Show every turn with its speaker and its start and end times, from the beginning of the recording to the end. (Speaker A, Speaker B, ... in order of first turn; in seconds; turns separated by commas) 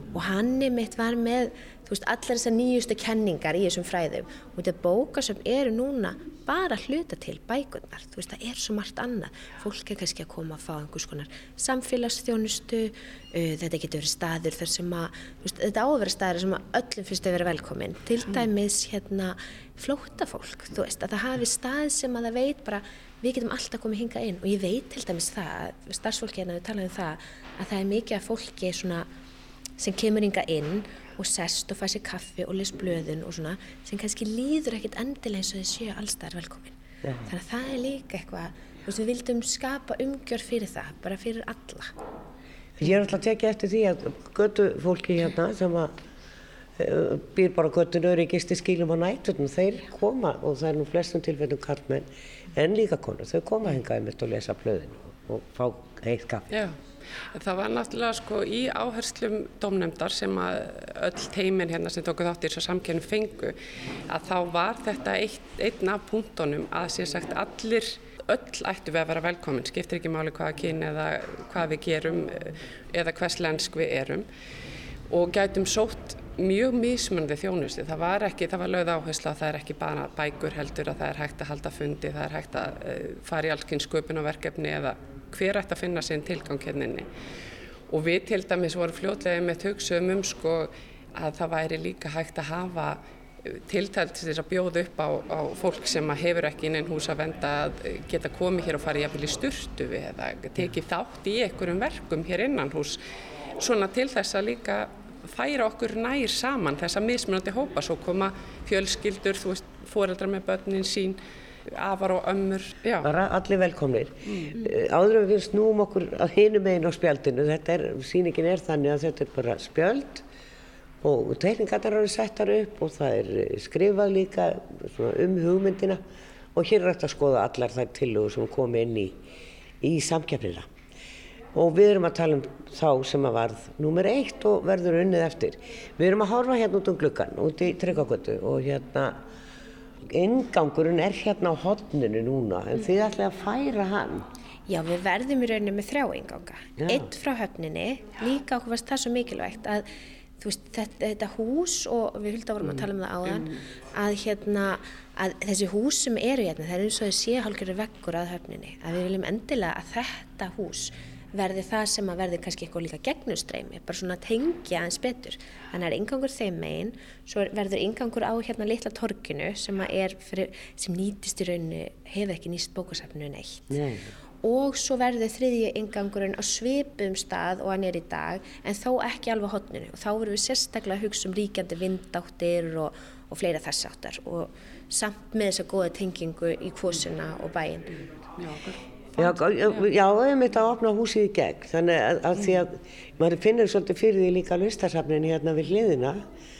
Speaker A: 0.1-29.1, Speaker A: 29.8-36.8, Speaker B: 37.0-37.3, Speaker A: 37.3-41.9, Speaker B: 42.8-45.9, Speaker B: 46.8-56.5, Speaker C: 56.5-56.8, Speaker C: 57.3-63.5, Speaker C: 64.1-74.3, Speaker C: 75.1-87.1, Speaker C: 87.9-103.0, Speaker C: 103.6-113.1, Speaker B: 113.0-120.2, Speaker C: 114.3-114.5, Speaker B: 121.0-126.0, Speaker B: 126.5-129.2, Speaker B: 129.8-130.7, Speaker B: 131.5-139.2, Speaker B: 140.1-144.3, Speaker A: 144.7-149.8, Speaker B: 146.8-147.1, Speaker A: 150.4-173.8, Speaker B: 152.7-153.4, Speaker B: 173.7-174.1, Speaker A: 174.4-188.0, Speaker C: 188.4-188.8, Speaker B: 189.2-196.2